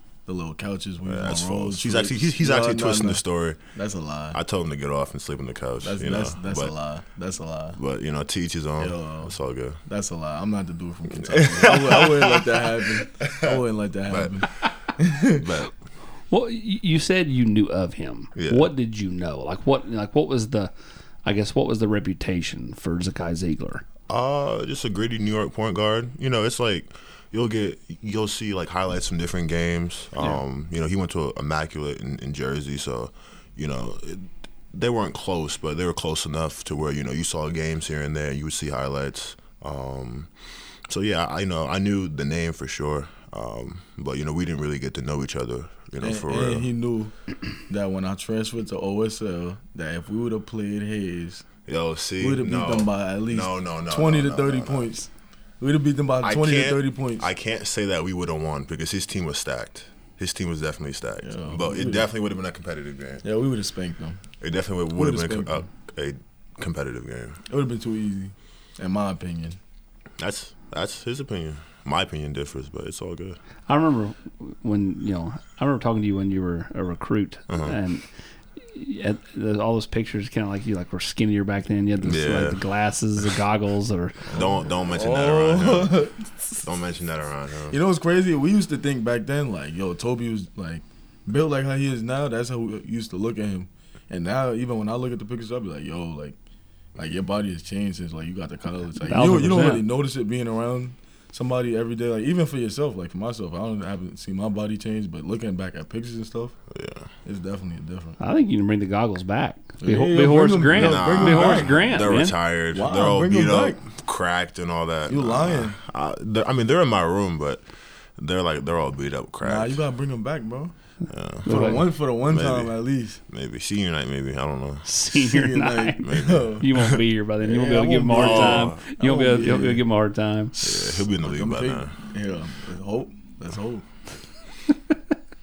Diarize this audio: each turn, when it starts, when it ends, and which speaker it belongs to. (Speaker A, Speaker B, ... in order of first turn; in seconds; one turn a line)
Speaker A: 0.2-3.2
Speaker B: 1.1-3.6
Speaker A: 3.8-4.4
Speaker B: 4.3-6.7
Speaker A: 5.8-7.8
Speaker B: 7.8-9.8
Speaker A: 8.8-15.5
Speaker B: 11.1-14.4
Speaker B: 15.3-15.7
Speaker C: 16.3-20.7
Speaker B: 18.4-18.7
Speaker C: 21.2-23.8
Speaker B: 24.1-40.3
Speaker B: 40.9-46.7
Speaker A: 46.0-47.1
Speaker A: 47.7-51.5
Speaker B: 51.7-54.9
Speaker A: 52.2-57.3
Speaker B: 56.2-63.2
Speaker A: 61.2-62.0
Speaker A: 63.2-64.2
Speaker B: 64.4-67.4
Speaker A: 65.0-65.7
Speaker A: 67.5-69.6
Speaker B: 70.2-73.4
Speaker C: 73.7-78.1
Speaker B: 77.5-77.8
Speaker C: 78.7-84.3
Speaker B: 82.0-82.7
Speaker A: 84.2-86.7
Speaker B: 84.3-86.0
Speaker B: 86.6-87.8
Speaker A: 87.7-96.4
Speaker A: 97.0-106.6
Speaker C: 99.0-99.8
Speaker B: 106.7-107.1
Speaker A: 107.2-108.2
Speaker C: 108.2-112.4
Speaker A: 109.8-112.2
Speaker B: 110.7-117.6
Speaker A: 112.7-113.8
Speaker A: 115.1-115.8
Speaker B: 118.2-119.8
Speaker A: 119.4-120.7
Speaker B: 121.1-122.8
Speaker C: 121.5-121.9
Speaker A: 121.5-123.2
Speaker B: 123.3-124.9
Speaker C: 124.8-130.6
Speaker A: 125.1-126.7
Speaker B: 126.0-127.0
Speaker A: 127.4-129.8
Speaker B: 128.2-128.8
Speaker A: 130.6-133.9
Speaker B: 130.6-132.0